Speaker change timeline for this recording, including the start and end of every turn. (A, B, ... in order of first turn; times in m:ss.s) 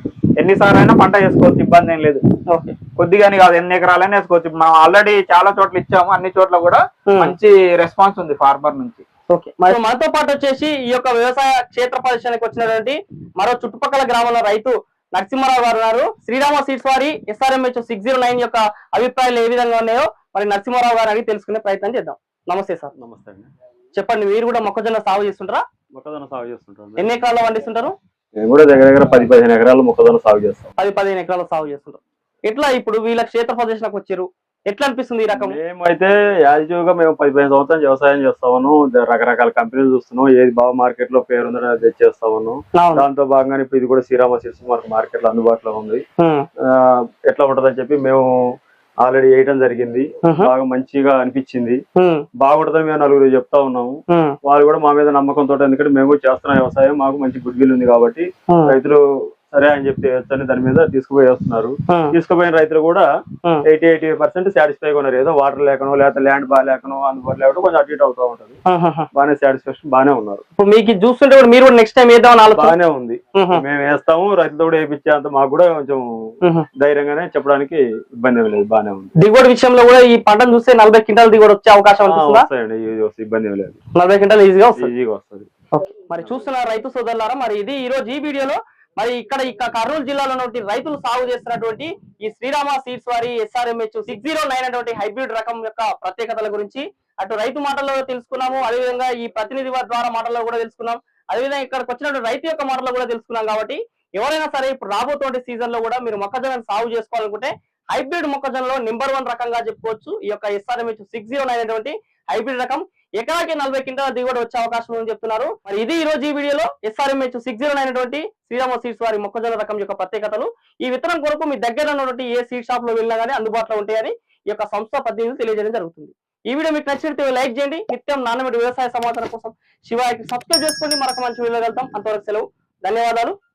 0:00.4-0:02.2 A
0:03.0-0:09.0 A
0:07.1-0:07.4 B
0:09.3-0:22.9 B
0:23.0-0:23.5 C
0:24.0-0:25.6 B
0:25.9-0:27.2 C
0:27.0-0:27.9 B
0:28.4-0:30.8 C
0:30.8-0:35.6 B
0:35.3-0:46.0 C
0:42.8-0:43.1 B
0:46.2-0:46.5 B
0:46.6-0:48.4 C
0:49.0-0:51.8 C
0:50.2-0:50.5 B
0:52.0-0:52.2 B
0:52.4-0:59.0 C
0:54.1-0:54.4 B
0:58.5-0:58.8 B
0:59.5-1:03.1 C
1:03.6-1:08.6 C
1:08.7-1:09.1 B
1:09.1-1:10.4 C
1:10.6-1:12.8 B
1:12.5-1:16.2 C
1:13.4-1:13.6 B
1:16.8-1:19.1 C
1:19.2-1:22.5 B
1:22.1-1:23.8 C
1:24.0-1:24.9 B
1:24.8-1:25.5 C
1:25.8-2:13.4 B